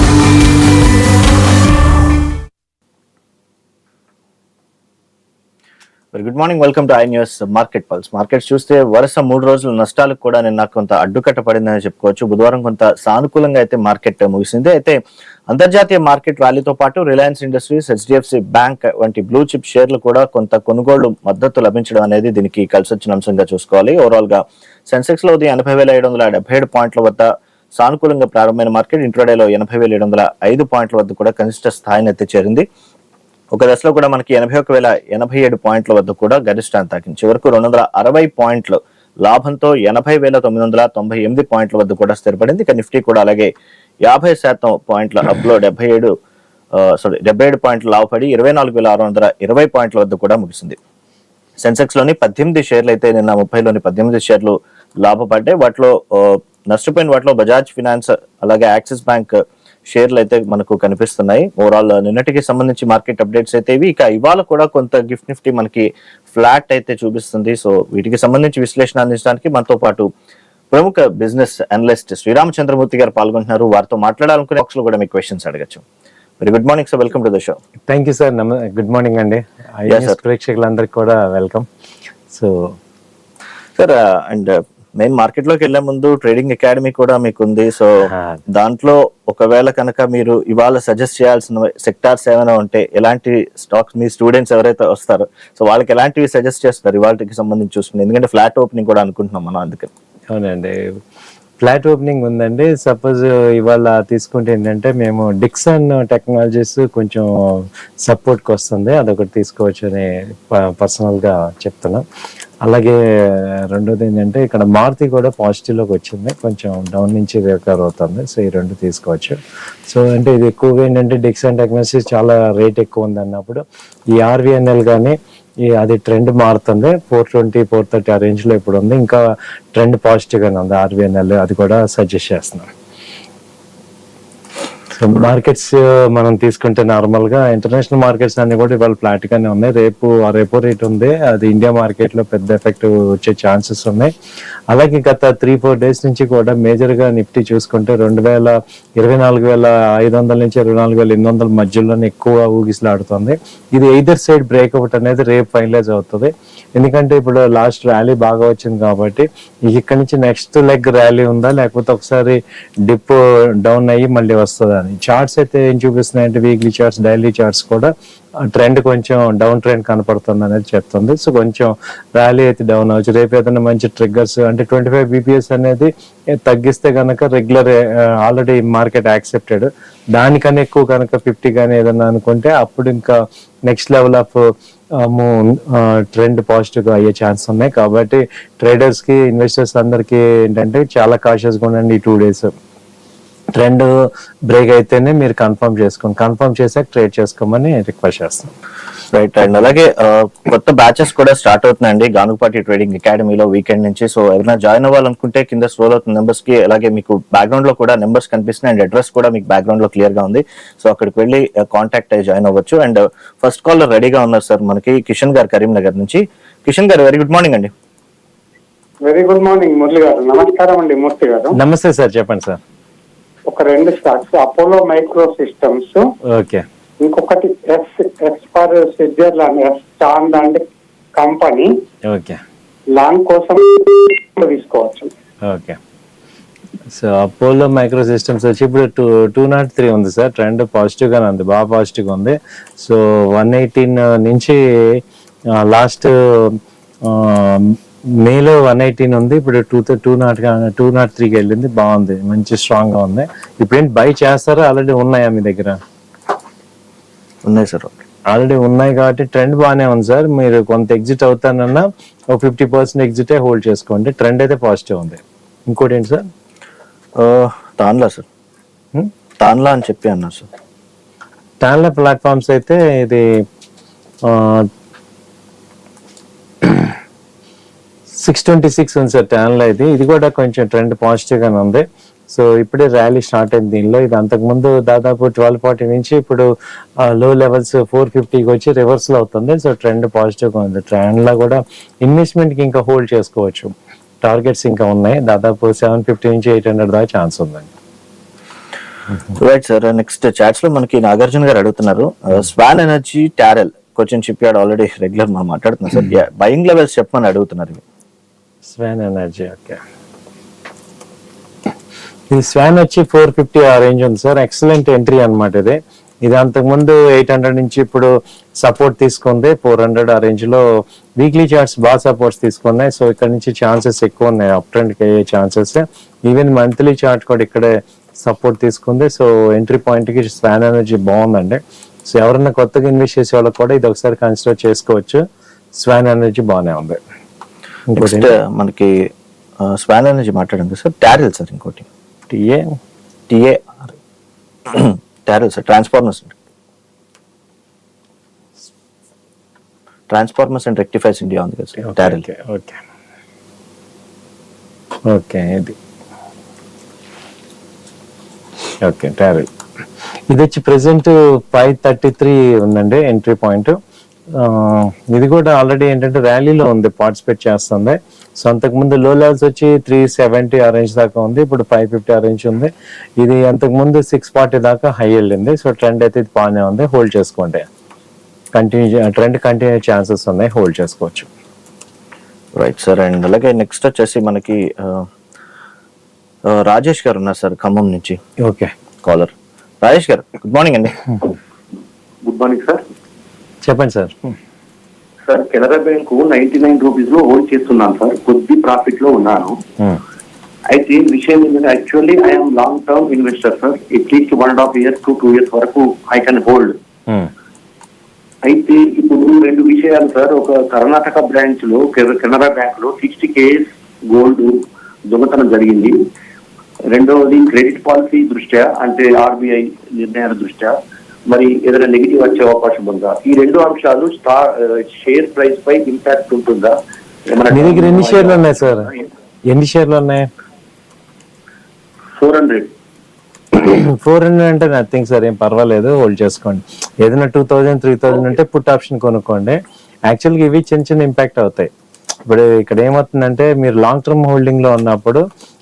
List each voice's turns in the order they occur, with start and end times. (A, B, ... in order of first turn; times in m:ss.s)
0:06.1-0:32.6 A
0:33.5-0:43.5 A
0:44.0-0:46.1 A
0:46.7-0:50.8 A
0:51.6-1:10.1 A
1:10.7-1:15.8 A
1:16.4-1:17.6 A
1:17.9-1:21.7 B
1:19.9-1:20.2 A
1:22.3-1:22.8 B
1:23.8-1:39.9 A
1:28.1-1:28.4 B
1:40.3-1:40.8 B
1:41.6-1:52.0 B
1:52.6-2:03.6 B
2:04.2-2:09.2 B
2:09.7-2:12.7 B
2:14.9-2:24.1 B
2:24.7-2:47.9 B
2:48.5-2:55.9 B
2:56.5-3:12.5 B
3:13.6-3:18.5 B
3:19.1-3:37.7 A
3:39.0-3:41.6 C
3:41.5-3:42.6 B
3:43.5-3:46.1 C
3:46.3-3:46.6 B
3:47.0-3:51.8 C
3:52.1-3:52.4 B
3:52.9-3:55.1 C
3:55.4-3:55.8 B
3:56.9-4:05.0 B
4:05.6-4:15.8 B
4:17.4-4:18.0 A
4:18.3-4:26.3 B
4:27.2-4:28.2 A
4:29.4-4:30.4 A
4:31.6-4:33.2 B
4:34.2-4:34.7 B
4:36.6-4:36.9 B
4:38.2-4:46.5 B
4:47.0-4:57.7 B
4:59.4-5:07.8 A
5:08.7-5:09.8 B
5:12.3-5:18.1 B
5:18.6-5:20.6 B
5:21.2-5:35.2 B
5:35.8-5:37.0 B
5:37.9-5:38.3 B
5:37.9-5:41.8 A
5:42.3-5:42.8 B
5:43.3-5:43.9 A
5:44.7-5:46.3 A
5:50.1-5:52.2 A
5:51.8-5:52.8 B
5:55.1-5:55.8 B
5:58.8-5:59.5 B
6:00.3-6:03.8 B
6:04.3-6:17.6 B
6:18.5-6:21.3 B
6:22.5-6:25.1 A
6:26.4-6:28.2 A
6:28.4-6:28.7 B
6:29.0-6:31.0 A
6:32.2-6:32.8 D
6:33.6-6:34.3 B
6:35.2-6:39.6 D
6:40.7-6:46.8 D
6:48.4-6:56.1 D
6:56.9-7:08.8 D
7:07.5-7:08.9 B
7:09.5-7:10.3 B
7:12.2-7:12.7 D
7:13.6-7:21.7 B
7:22.2-7:25.2 B